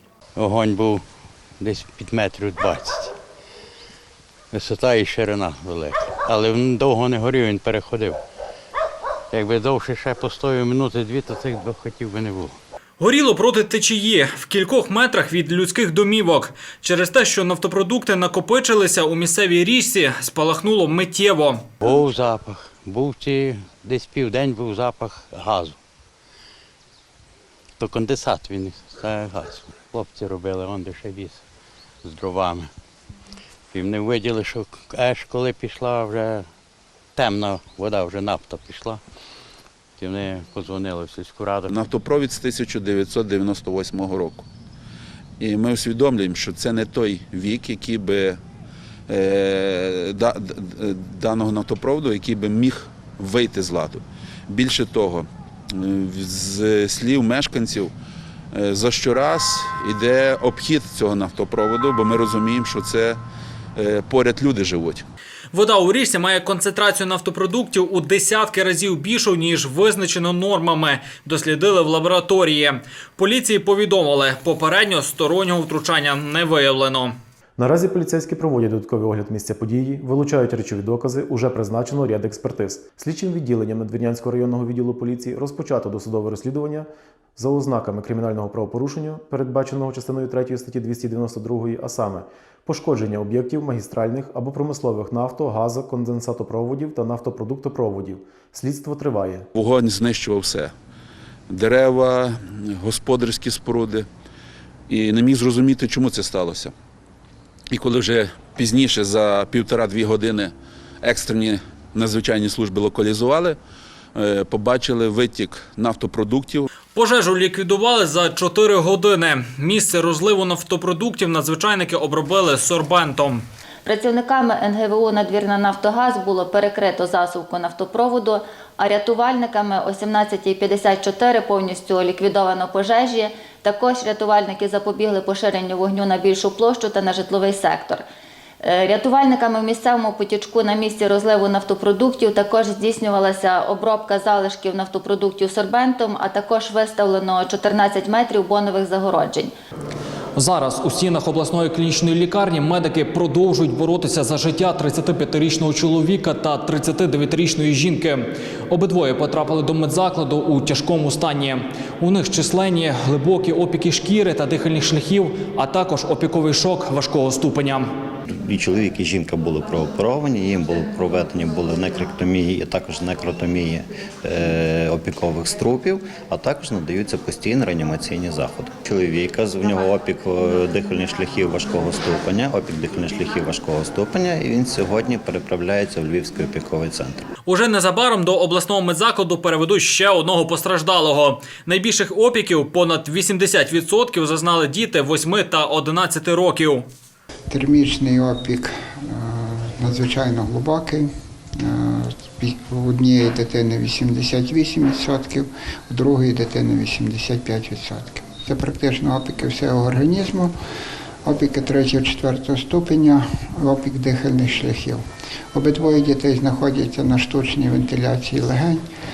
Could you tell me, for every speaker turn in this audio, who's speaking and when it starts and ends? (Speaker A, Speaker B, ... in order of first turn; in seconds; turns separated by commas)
Speaker A: 0.3-1.0, Speaker A: 1.6-3.1, Speaker A: 4.5-8.2, Speaker A: 9.3-12.6, Speaker B: 13.0-21.6, Speaker A: 21.8-25.8, Speaker A: 27.8-31.4, Speaker A: 32.0-32.7, Speaker A: 33.7-36.5, Speaker A: 37.1-39.0, Speaker A: 40.0-41.8, Speaker C: 41.7-44.5, Speaker C: 45.4-48.4, Speaker C: 49.1-57.9, Speaker C: 58.5-63.2, Speaker C: 63.8-65.0, Speaker B: 65.5-77.1, Speaker D: 77.6-99.5, Speaker C: 99.5-100.7, Speaker C: 101.5-104.1, Speaker C: 104.9-106.7, Speaker C: 107.7-113.6, Speaker C: 114.1-116.7, Speaker B: 116.9-123.4, Speaker E: 123.8-138.0, Speaker E: 138.6-149.5, Speaker B: 150.3-167.9, Speaker F: 168.3-187.2, Speaker B: 187.4-196.8, Speaker G: 197.5-210.6, Speaker G: 211.2-218.8